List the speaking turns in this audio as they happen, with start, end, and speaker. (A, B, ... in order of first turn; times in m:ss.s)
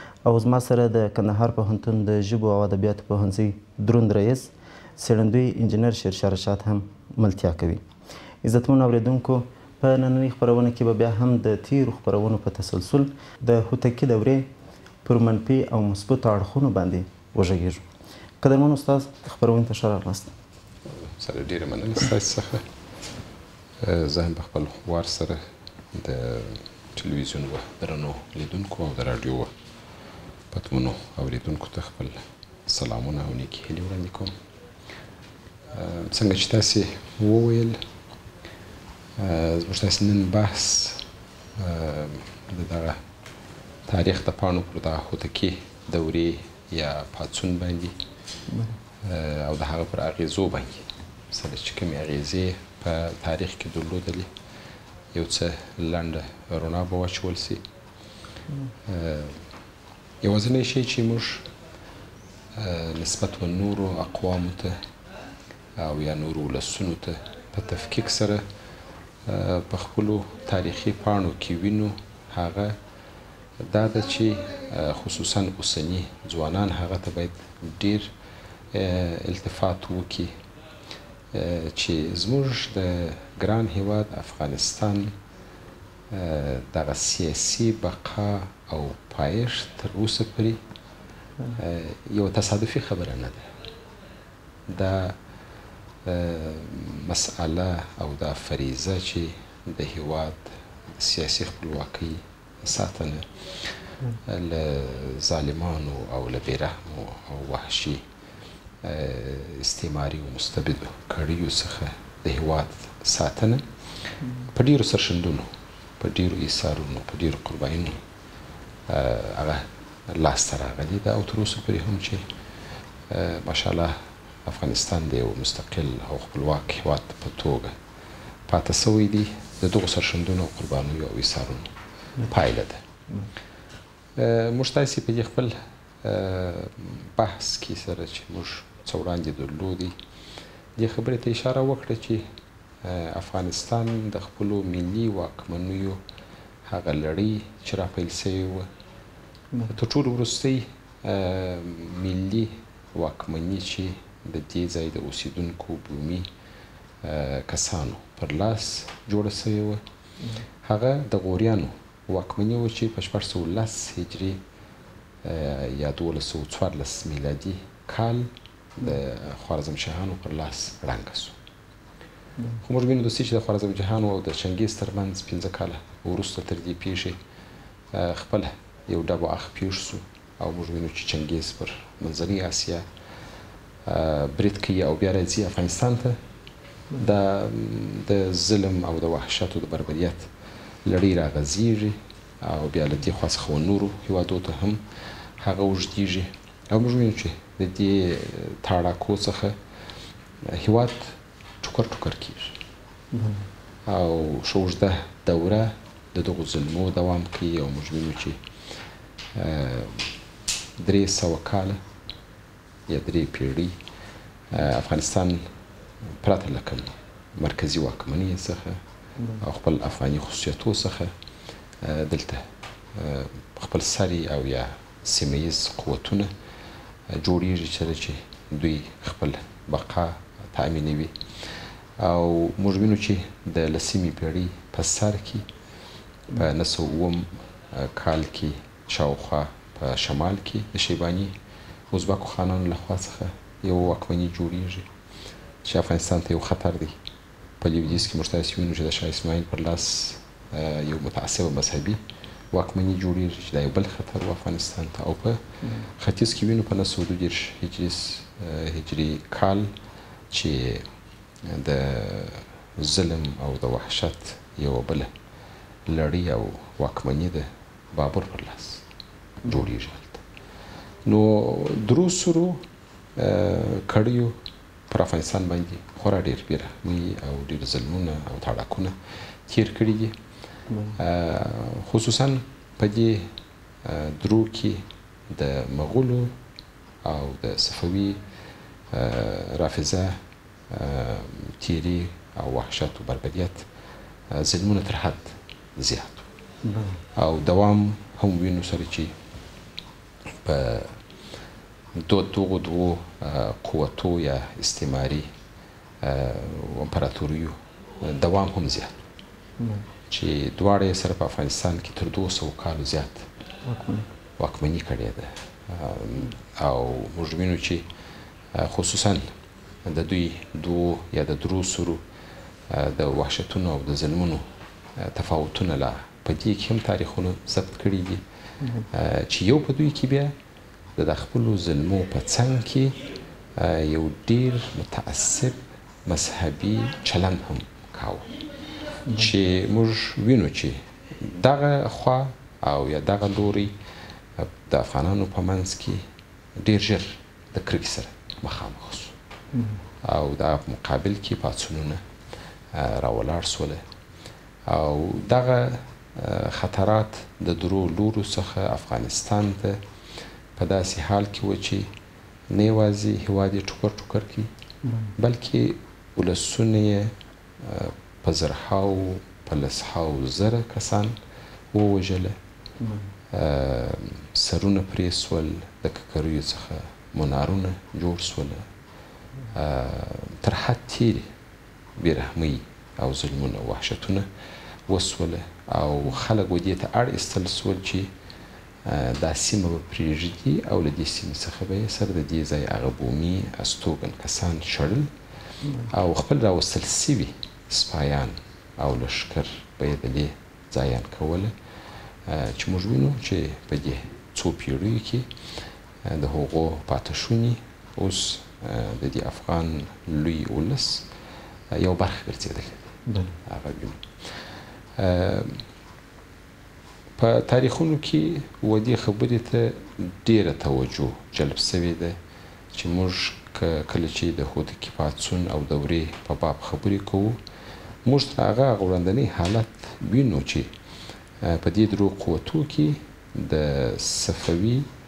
0:00.2-0:07.8 A
0:08.4-0:14.5 A
0:15.0-0:17.8 A
0:18.4-0:20.3 A
0:21.0-0:22.6 B
0:23.8-0:25.4 B
0:25.9-0:29.5 B
0:30.5-0:34.3 B
0:35.7-0:37.8 B
0:39.2-0:41.0 B
0:41.6-0:43.0 B
0:43.8-0:47.9 B
0:48.5-0:48.8 A
0:49.0-0:54.3 B
0:55.1-0:57.6 B
0:58.8-0:59.4 B
1:00.2-1:01.5 B
1:02.5-1:04.8 B
1:05.8-1:08.4 B
1:09.2-1:12.8 B
1:13.6-1:18.1 B
1:18.7-1:20.3 B
1:21.3-1:25.1 B
1:26.1-1:30.6 B
1:31.5-1:33.5 B
1:34.7-1:35.2 B
1:36.0-1:43.3 B
1:44.2-1:48.0 B
1:48.8-1:53.6 B
1:54.5-1:58.0 B
1:58.9-2:02.2 B
2:03.1-2:07.7 B
2:08.5-2:11.7 B
2:12.2-2:12.8 B
2:14.2-2:19.9 B
2:20.8-2:22.2 B
2:22.8-2:26.0 B
2:26.6-2:28.7 B
2:29.7-2:36.3 B
2:37.0-2:39.8 B
2:40.6-2:44.4 B
2:45.2-2:51.4 B
2:52.6-2:57.2 B
2:57.9-3:02.8 B
3:03.8-3:06.2 B
3:06.9-3:10.3 B
3:10.8-3:14.8 B
3:15.4-3:19.6 B
3:20.4-3:22.6 B
3:23.1-3:23.4 A
3:23.9-3:28.4 B
3:29.3-3:30.1 B
3:30.8-3:31.8 B
3:32.9-3:33.7 B
3:34.5-3:35.4 B
3:36.2-3:38.8 B
3:39.4-3:41.1 B
3:41.8-3:46.3 B
3:47.1-3:51.1 B
3:52.0-3:55.5 B
3:56.3-4:01.3 B
4:01.9-4:04.9 B
4:05.6-4:07.0 B
4:07.6-4:12.0 B
4:12.5-4:19.7 B
4:15.6-4:15.9 A
4:20.3-4:20.9 B
4:21.4-4:25.1 B
4:25.9-4:28.8 B
4:29.4-4:30.2 B
4:31.0-4:32.6 B
4:33.2-4:34.4 B
4:34.9-4:38.9 B
4:39.5-4:40.1 B
4:40.7-4:41.0 A
4:41.0-4:43.3 B
4:43.8-4:46.3 B
4:47.0-4:48.2 B
4:48.9-4:53.6 B
4:54.3-4:56.3 B
4:56.6-4:57.0 A
4:57.2-4:59.1 B
5:00.4-5:01.0 B
5:02.0-5:05.3 B
5:06.0-5:09.0 B
5:09.6-5:09.8 A
5:10.1-5:13.3 B
5:13.6-5:14.1 A
5:14.4-5:17.8 B
5:18.5-5:19.3 B
5:19.8-5:22.0 B
5:22.7-5:24.4 B
5:25.0-5:28.2 B
5:28.9-5:30.3 B
5:31.0-5:33.0 B
5:33.6-5:38.3 B
5:39.1-5:39.3 A
5:39.1-5:43.7 B
5:44.4-5:46.0 B
5:46.6-5:49.1 B
5:49.5-5:49.8 A
5:50.0-5:52.0 B
5:52.7-5:53.8 B
5:54.7-5:59.8 B
6:00.6-6:01.9 B
6:02.5-6:04.5 B
6:04.8-6:05.1 A
6:05.2-6:11.1 B
6:11.7-6:12.4 B
6:12.8-6:13.0 A
6:13.3-6:18.6 B
6:19.5-6:21.3 B
6:22.0-6:24.3 B
6:24.9-6:28.1 B
6:28.8-6:35.1 B
6:35.6-6:35.9 A
6:35.9-6:41.5 B
6:42.2-6:45.3 B
6:46.0-6:51.1 B
6:51.7-6:52.9 B
6:53.1-6:53.4 A
6:53.4-6:54.0 B
6:55.0-6:55.6 B
6:57.2-7:02.2 B
7:02.7-7:07.4 B
7:08.0-7:10.7 B
7:11.4-7:14.9 B